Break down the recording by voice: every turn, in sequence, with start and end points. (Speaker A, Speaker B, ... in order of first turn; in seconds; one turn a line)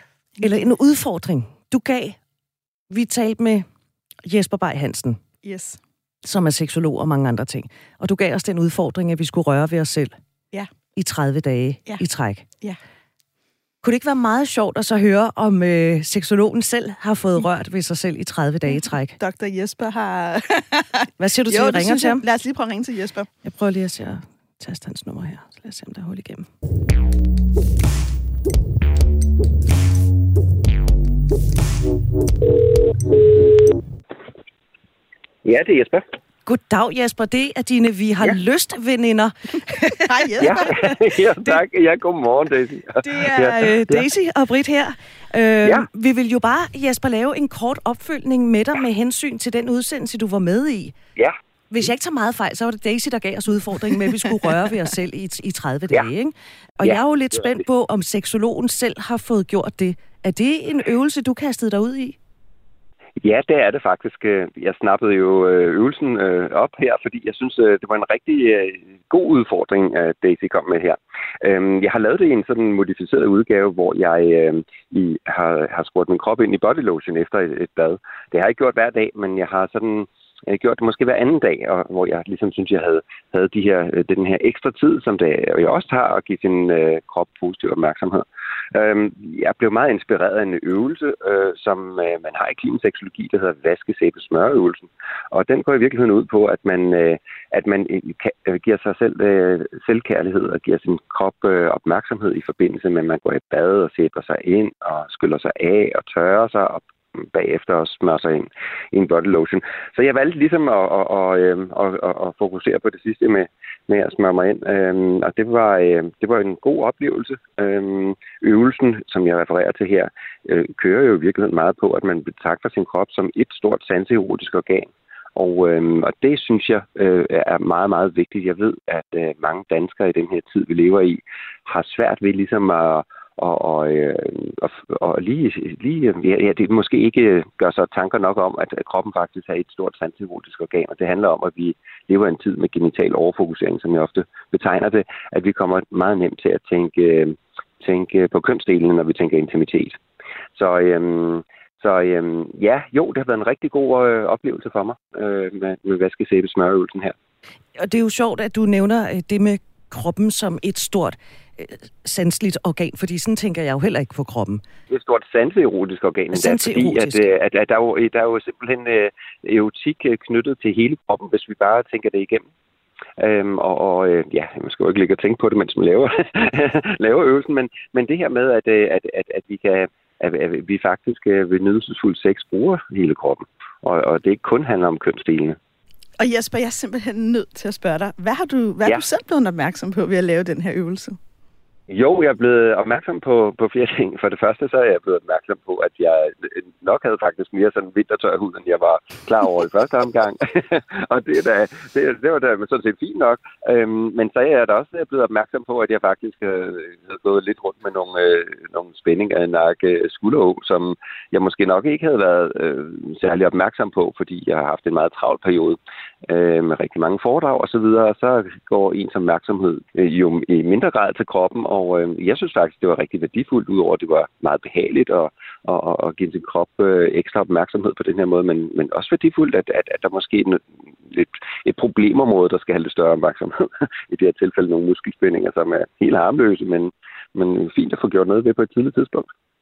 Speaker A: 0.4-0.7
Speaker B: 0.4-2.2
Speaker B: 2.9-3.6
Speaker B: 4.3-5.2
Speaker A: 5.4-5.8
Speaker B: 6.2-10.1
Speaker B: 11.0-12.5
Speaker B: 13.8-19.2
Speaker A: 18.7-23.3
Speaker B: 21.2-22.2
Speaker B: 23.4-26.5
Speaker C: 35.5-36.1
Speaker B: 36.5-40.9
Speaker A: 40.1-40.7
Speaker C: 40.4-44.1
Speaker B: 43.0-51.0
Speaker B: 51.7-62.2
Speaker C: 56.8-57.6
Speaker C: 63.2-150.0
Speaker C: 150.6-157.1
Speaker B: 157.8-164.6
Speaker C: 164.9-172.5
Speaker B: 166.3-167.3
Speaker C: 173.2-185.6
Speaker A: 186.2-191.2
Speaker C: 191.9-233.5
Speaker C: 234.1-239.3